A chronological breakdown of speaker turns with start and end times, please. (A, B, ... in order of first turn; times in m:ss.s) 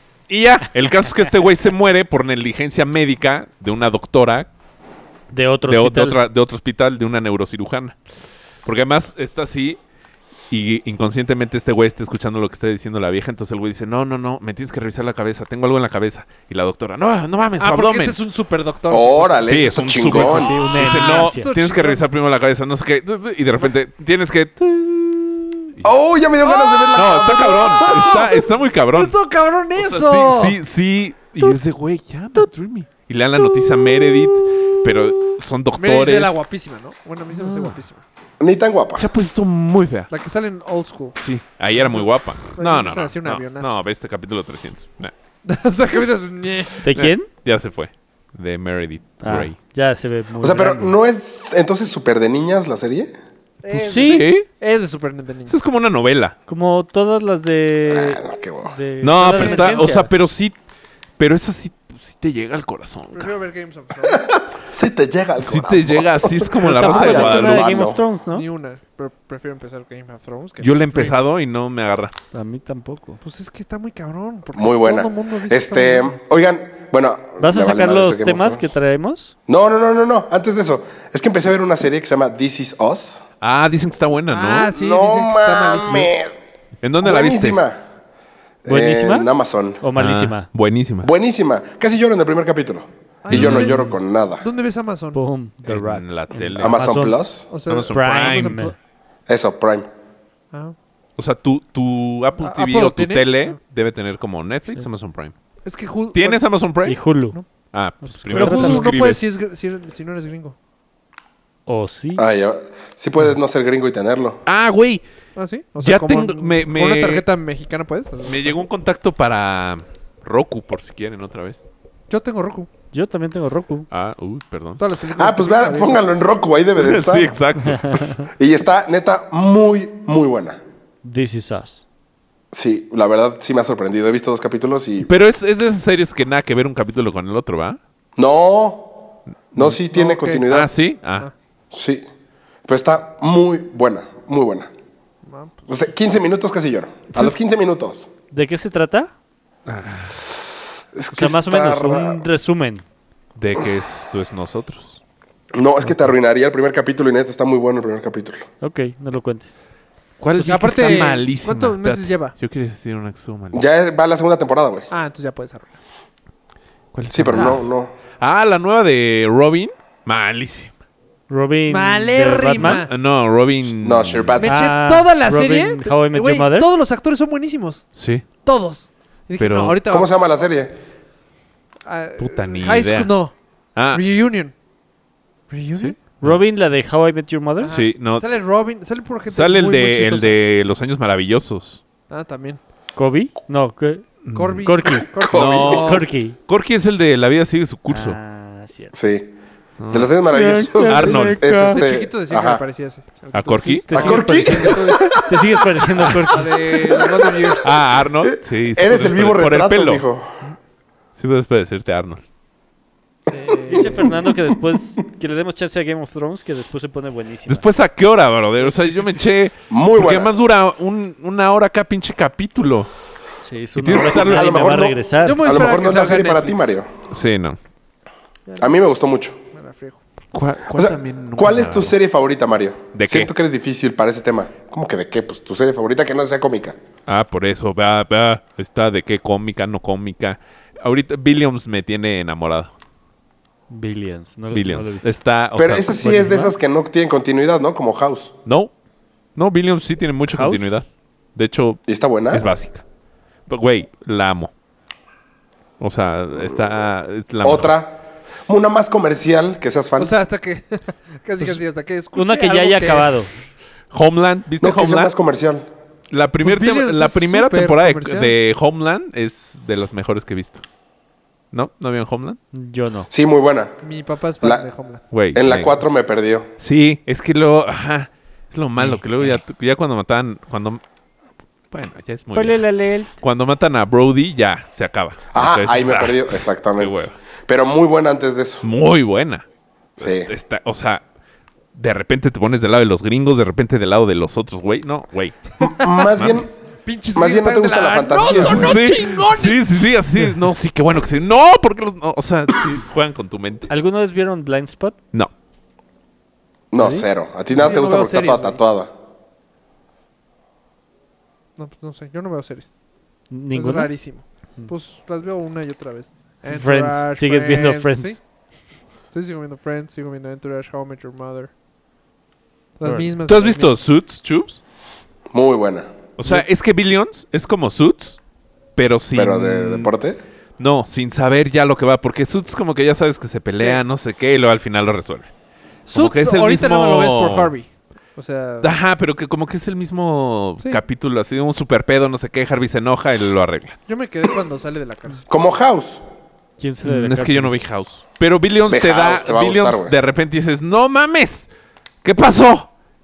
0:00.3-0:04.5 A
0:05.3-0:06.2 B
0:05.7-0:08.1 A
0:08.6-0:09.8 A
0:10.5-0:18.2 A
0:17.6-0:22.0 C
0:18.9-0:20.6 D
0:19.4-0:25.8 A
0:20.1-0:21.5 B
0:25.8-0:28.1 D
0:26.4-0:30.6 C
0:26.9-0:29.2 A
0:29.8-0:36.4 A
0:33.4-0:38.0 C
0:37.3-0:37.8 A
0:38.4-0:39.1 D
0:39.0-0:40.1 A
0:40.1-0:41.2 C
0:41.2-0:45.1 A
0:41.7-0:43.8 C
0:45.4-0:47.1 C
0:46.8-0:47.3 B
0:47.0-0:49.6 A
0:49.2-0:51.0 B
0:50.4-0:53.1 D
0:53.6-0:55.6 C
0:53.7-0:54.5 A
0:53.9-0:54.3 B
0:55.5-0:56.4 A
0:56.5-1:00.1 B
0:57.9-0:58.8 D
0:59.0-1:00.6 A
0:59.2-1:00.0 C
1:01.2-1:03.3 A
1:03.1-1:04.3 C
1:04.1-1:08.0 D
1:05.4-1:07.7 A
1:06.6-1:08.5 B
1:08.3-1:11.2 C
1:10.6-1:12.1 A
1:12.3-1:13.2 B
1:13.2-1:16.2 C
1:14.6-1:18.7 D
1:17.4-1:19.4 B
1:19.5-1:23.2 D
1:23.4-1:24.7 A
1:24.3-1:26.1 C
1:24.7-1:26.3 D
1:26.8-1:27.6 A
1:27.0-1:27.8 D
1:28.6-1:29.8 D
1:28.7-1:30.5 B
1:30.0-1:31.1 A
1:31.0-1:34.4 D
1:33.2-1:35.2 C
1:33.3-1:33.7 A
1:35.1-1:37.2 B
1:35.7-1:36.8 A
1:36.6-1:37.5 D
1:37.5-1:38.7 C
1:37.7-1:38.6 A
1:37.9-1:38.8 B
1:39.3-1:39.9 D
1:41.2-1:45.3 A
1:42.4-1:43.6 C
1:45.6-1:46.4 C
1:46.1-1:47.0 A
1:46.9-1:47.4 B
1:47.7-1:49.3 A
1:48.0-1:49.0 B
1:48.3-1:50.6 C
1:51.7-1:52.3 B
1:52.2-1:54.4 D
1:54.5-1:55.0 A
1:55.4-1:58.6 C
1:55.8-1:57.3 A
1:58.3-2:01.6 A
2:02.1-2:02.7 C
2:02.9-2:03.9 B
2:03.9-2:04.8 A
2:04.8-2:06.0 C
2:05.2-2:07.4 D
2:06.8-2:08.0 A
2:07.6-2:08.2 B
2:08.3-2:10.6 D
2:11.0-2:11.8 B
2:12.5-2:15.1 D
2:15.1-2:17.8 A
2:18.2-2:18.9 D
2:19.5-2:20.7 D
2:19.9-2:20.4 C
2:20.3-2:21.3 A
2:21.7-2:22.0 D
2:22.7-2:24.7 D
2:25.2-2:25.7 C
2:25.7-2:28.1 D
2:28.3-2:29.1 B
2:29.7-2:30.2 A
2:30.9-2:32.2 D
2:31.1-2:32.8 B
2:33.4-2:35.0 A
2:35.5-2:38.4 D
2:38.6-2:39.6 B
2:40.2-2:43.7 A
2:40.4-2:42.3 C
2:40.7-2:41.1 B
2:43.5-2:44.9 D
2:44.9-2:45.8 C
2:46.9-2:47.7 A
2:47.1-2:47.9 D
2:48.2-2:50.7 A
2:51.3-2:52.8 B
2:51.7-2:52.9 C
2:52.6-2:54.4 A
2:53.7-2:54.7 D
2:54.4-2:57.9 C
2:54.4-2:56.7 B
2:58.0-2:58.3 A
2:58.4-3:00.1 C
2:59.4-2:59.8 A
2:59.9-3:00.7 D
3:01.8-3:03.3 C
3:02.2-3:03.1 A
3:03.8-3:04.0 A
3:03.9-3:04.5 C
3:05.5-3:06.0 C
3:05.8-3:06.4 A
3:06.2-3:07.8 B
3:07.6-3:10.4 C
3:07.6-3:08.3 A
3:09.3-3:11.8 A
3:12.1-3:12.6 C
3:13.0-3:15.1 B
3:14.2-3:14.7 A
3:14.3-3:16.1 C
3:15.2-3:15.7 D
3:15.3-3:18.2 A
3:15.6-3:16.4 B
3:17.9-3:19.0 B
3:18.9-3:19.3 D
3:19.8-3:20.1 A
3:19.9-3:22.6 D
3:20.3-3:21.9 B
3:20.9-3:21.5 A
3:21.7-3:25.3 C
3:23.3-3:23.9 A
3:23.8-3:26.6 B
3:23.9-3:25.2 D
3:26.0-3:27.7 C
3:26.1-3:26.5 A
3:26.9-3:27.6 D
3:27.6-3:30.1 A
3:28.2-3:30.4 D
3:31.2-3:32.2 A
3:33.3-3:34.1 C
3:33.7-3:37.7 B
3:33.8-3:34.1 D
3:37.5-3:42.9 A
3:38.6-3:39.2 C
3:39.7-3:40.3 D
3:43.4-3:45.6 B
3:43.8-3:44.7 A
3:43.9-3:46.9 D
3:45.2-3:46.8 C
3:47.1-3:47.6 A
3:48.6-3:49.4 D
3:49.5-3:50.0 C
3:50.3-3:51.9 A
3:50.7-3:56.8 D
3:52.9-3:53.3 A
3:57.1-4:02.7 A
4:03.7-4:05.2 B
4:04.5-4:06.2 A
4:05.6-4:08.3 D
4:06.0-4:06.5 B
4:08.5-4:08.7 A
4:09.4-4:12.8 A
4:10.3-4:10.8 B
4:11.9-4:12.5 D
4:13.5-4:14.5 A
4:15.8-4:17.7 A
4:17.4-4:20.1 D
4:20.0-4:23.2 C
4:22.1-4:23.3 B
4:23.9-4:25.1 A
4:24.6-4:25.7 D
4:26.1-4:30.6 A
4:26.4-4:28.4 C
4:31.5-4:32.4 A
4:32.5-4:33.1 B
4:33.1-4:33.8 D
4:33.8-4:35.0 C
4:35.1-4:35.8 A
4:35.4-4:36.5 D
4:36.6-4:40.8 A
4:41.7-4:42.6 A
4:42.3-4:43.1 B
4:43.2-4:47.1 A
4:45.3-4:48.6 D
4:48.6-4:49.5 A
4:50.0-4:51.0 A
4:50.0-4:50.3 D
4:51.8-4:56.4 A
4:55.6-4:56.5 D
4:56.8-4:59.6 C
4:57.1-4:58.8 D
4:58.2-5:03.7 A
5:03.7-5:05.0 B
5:06.7-5:08.9 D
5:06.8-5:07.0 B
5:07.6-5:08.6 C
5:11.6-5:12.7 C
5:13.3-5:13.9 B
5:13.5-5:18.2 C
5:16.5-5:18.2 B
5:19.1-5:21.5 C
5:22.8-5:23.8 C
5:22.8-5:23.1 B
5:23.3-5:24.6 A
5:25.3-5:25.9 D
5:26.2-5:28.2 A
5:28.8-5:29.9 A
5:29.1-5:30.2 D
5:30.6-5:35.3 A
5:35.9-5:38.7 C
5:35.9-5:37.5 A
5:38.6-5:43.8 A
5:43.9-5:45.3 C
5:45.3-5:46.0 D
5:46.6-5:47.5 B
5:46.8-5:51.5 A
5:48.7-5:49.9 D
5:52.0-5:52.7 A